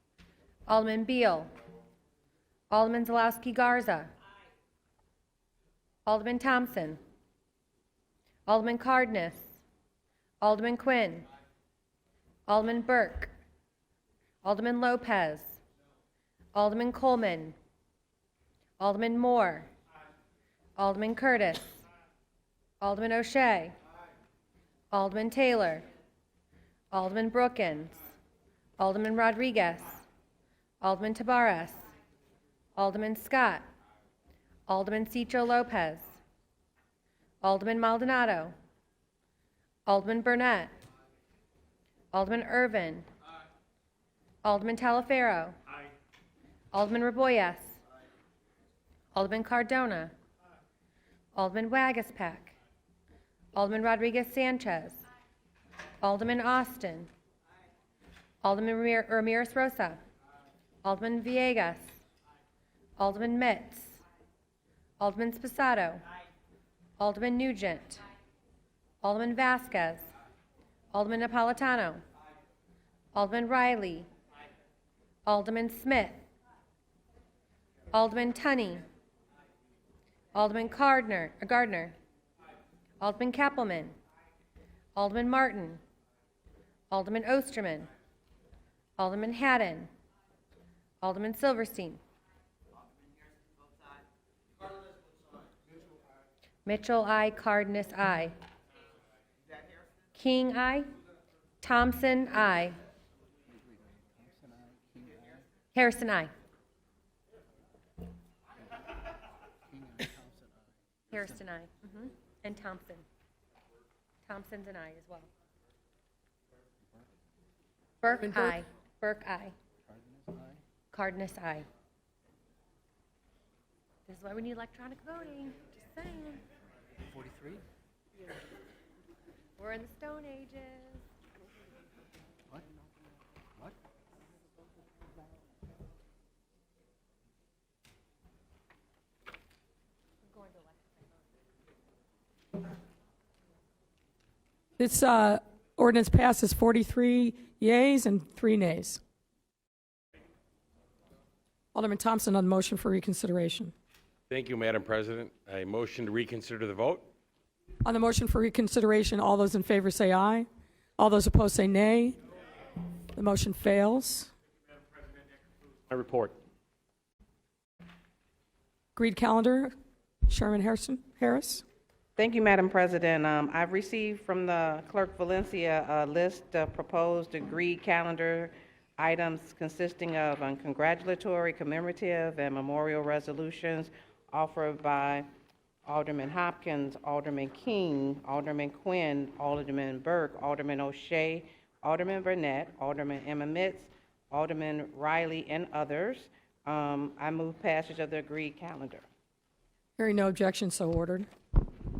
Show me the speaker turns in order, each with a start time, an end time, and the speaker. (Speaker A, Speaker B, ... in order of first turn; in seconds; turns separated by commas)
Speaker A: 0.7-1.5, Speaker A: 2.7-4.1, Speaker A: 6.0-7.0, Speaker A: 8.5-9.6, Speaker A: 10.4-11.2, Speaker A: 12.5-13.3, Speaker A: 14.4-15.6, Speaker A: 16.5-17.5, Speaker A: 18.8-19.7, Speaker A: 20.8-21.8, Speaker A: 22.8-23.7, Speaker A: 24.9-25.8, Speaker A: 26.9-28.0, Speaker A: 28.8-30.0, Speaker A: 30.8-31.9, Speaker A: 32.8-33.6, Speaker A: 34.7-36.2, Speaker A: 37.4-38.5, Speaker A: 39.9-40.7, Speaker A: 42.1-43.1, Speaker A: 44.4-45.6, Speaker A: 46.7-47.8, Speaker A: 49.1-50.1, Speaker A: 51.3-52.5, Speaker A: 53.5-55.0, Speaker A: 56.0-57.1, Speaker A: 58.4-60.0, Speaker A: 60.8-61.9, Speaker A: 63.0-64.0, Speaker A: 65.0-66.0, Speaker A: 67.0-68.0, Speaker A: 69.0-70.1, Speaker A: 70.9-72.0, Speaker A: 73.1-74.1, Speaker A: 75.2-76.2, Speaker A: 77.9-78.8, Speaker A: 80.3-81.9, Speaker A: 83.0-84.0, Speaker A: 84.9-85.8, Speaker A: 86.9-87.9, Speaker A: 89.0-89.9, Speaker A: 91.0-92.0, Speaker A: 96.6-98.3, Speaker A: 100.1-100.8, Speaker A: 101.6-102.8, Speaker B: 103.6-105.4, Speaker A: 105.7-106.3, Speaker B: 109.7-110.5, Speaker A: 111.1-113.0, Speaker A: 114.2-115.3, Speaker A: 118.0-119.5, Speaker C: 118.2-118.6, Speaker B: 119.9-120.6, Speaker A: 120.9-121.7, Speaker A: 124.1-126.4, Speaker B: 127.1-127.6, Speaker A: 129.6-131.0, Speaker A: 140.3-140.7, Speaker C: 144.8-149.0, Speaker C: 151.7-153.7, Speaker D: 154.3-157.1, Speaker C: 157.8-162.2, Speaker C: 163.1-164.3, Speaker D: 165.9-166.3, Speaker C: 168.9-169.7, Speaker C: 170.3-171.6, Speaker E: 172.2-185.2, Speaker E: 185.8-199.0, Speaker C: 200.0-201.3